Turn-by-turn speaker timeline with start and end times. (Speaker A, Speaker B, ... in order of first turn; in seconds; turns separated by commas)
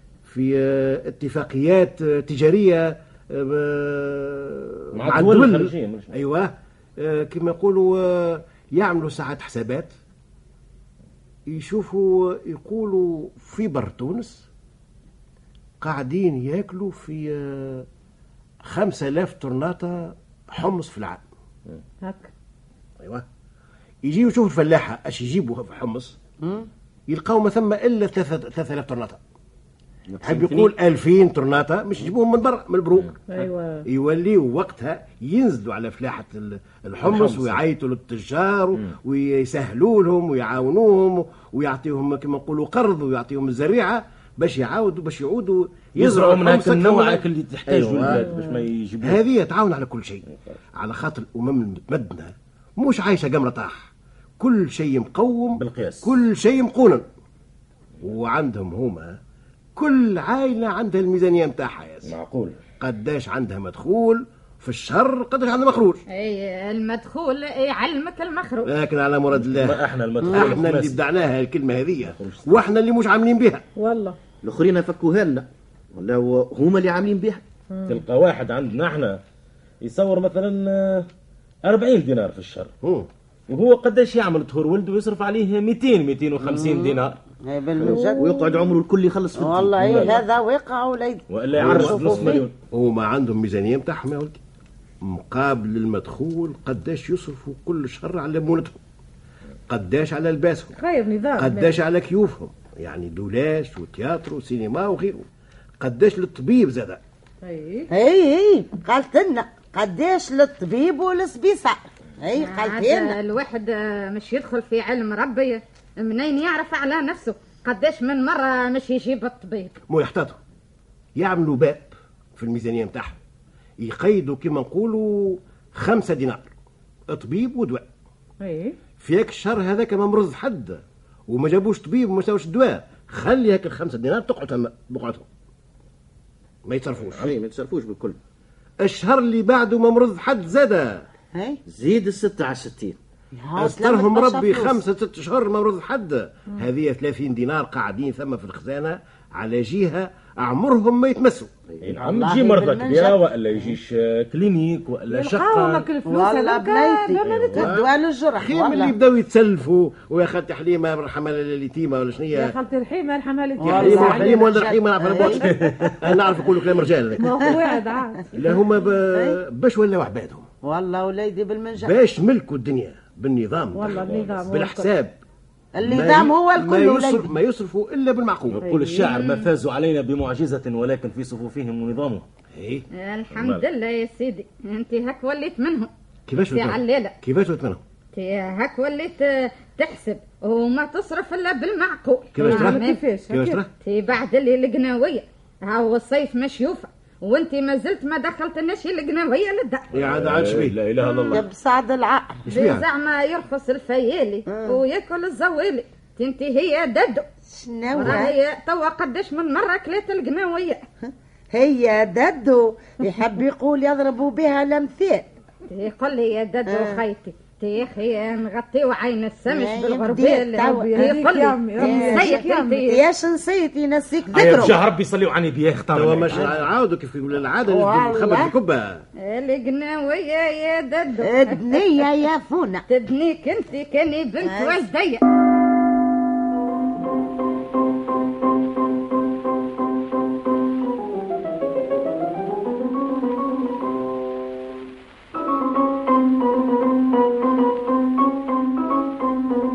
Speaker A: 0.2-9.9, Speaker B: 4.9-6.2, Speaker A: 11.5-14.5, Speaker A: 15.8-17.9, Speaker A: 18.6-21.2, Speaker C: 22.0-22.3, Speaker A: 24.0-26.2, Speaker D: 26.4-26.7, Speaker A: 27.1-29.2, Speaker E: 30.1-30.7, Speaker A: 30.2-48.2, Speaker C: 33.3-33.8, Speaker B: 37.0-37.6, Speaker B: 46.0-49.2, Speaker C: 48.2-48.6, Speaker A: 49.0-50.2, Speaker A: 50.8-57.0, Speaker B: 55.5-56.1, Speaker A: 58.0-59.2, Speaker A: 59.8-62.1, Speaker B: 62.0-62.6, Speaker A: 62.8-66.0, Speaker F: 66.1-68.7, Speaker A: 68.7-69.8, Speaker B: 69.3-71.0, Speaker D: 70.2-70.5, Speaker A: 70.5-73.6, Speaker B: 72.0-72.6, Speaker C: 73.8-74.2, Speaker E: 74.4-77.4, Speaker C: 77.7-78.0, Speaker B: 77.9-79.2, Speaker B: 79.8-81.1, Speaker B: 81.7-82.7, Speaker A: 82.8-83.1, Speaker B: 83.5-87.2, Speaker D: 86.4-88.4, Speaker E: 87.8-90.2, Speaker C: 87.9-88.2, Speaker D: 89.3-92.5, Speaker B: 89.8-90.2, Speaker B: 91.3-92.5, Speaker A: 91.6-92.2, Speaker E: 91.6-92.3, Speaker A: 92.7-94.4, Speaker A: 95.0-98.8, Speaker A: 99.7-100.8, Speaker C: 100.7-101.8, Speaker A: 101.3-105.3, Speaker A: 105.8-107.0, Speaker C: 107.4-107.9, Speaker D: 107.9-113.2, Speaker F: 112.4-119.7, Speaker A: 119.9-120.4, Speaker A: 121.2-123.2, Speaker A: 123.8-126.5, Speaker A: 127.1-127.8, Speaker C: 128.4-128.8, Speaker A: 128.9-135.2, Speaker A: 136.7-137.3, Speaker E: 137.1-138.2, Speaker A: 138.8-141.1, Speaker E: 141.7-143.0, Speaker D: 143.3-144.8, Speaker A: 143.6-151.5, Speaker B: 151.8-155.9, Speaker D: 151.9-153.2, Speaker C: 155.1-157.6, Speaker D: 156.0-158.9, Speaker B: 157.2-157.7, Speaker A: 157.6-162.6, Speaker C: 162.3-164.7, Speaker D: 163.6-165.5, Speaker A: 163.8-167.6, Speaker B: 165.4-165.9, Speaker C: 167.2-168.3, Speaker A: 168.3-170.5, Speaker D: 169.1-169.4, Speaker D: 170.6-171.9, Speaker A: 171.8-175.2, Speaker C: 173.7-174.9, Speaker B: 173.9-174.4, Speaker D: 175.7-177.3, Speaker A: 175.8-178.6, Speaker B: 178.5-182.2, Speaker C: 178.6-179.2, Speaker F: 179.1-179.5, Speaker A: 182.5-182.8, Speaker F: 182.9-185.9, Speaker B: 183.3-183.6, Speaker A: 186.3-187.8, Speaker F: 186.5-187.1, Speaker F: 188.1-193.0, Speaker A: 192.3-193.7, Speaker C: 192.4-193.6, Speaker F: 193.8-199.8, Speaker A: 199.9-200.8, Speaker B: 199.9-201.4, Speaker F: 201.0-201.3, Speaker D: 201.3-202.4, Speaker A: 202.5-202.8, Speaker F: 202.5-207.2, Speaker D: 204.5-204.8, Speaker D: 207.5-208.3, Speaker F: 207.9-210.8, Speaker D: 211.1-215.3, Speaker F: 215.7-223.0, Speaker D: 216.7-217.0, Speaker D: 219.5-221.0, Speaker C: 220.7-222.8, Speaker D: 221.8-224.8, Speaker B: 224.3-226.6, Speaker A: 225.9-229.0, Speaker D: 227.7-228.5, Speaker F: 229.2-232.0, Speaker D: 231.2-232.8, Speaker F: 232.9-235.2, Speaker D: 234.4-234.8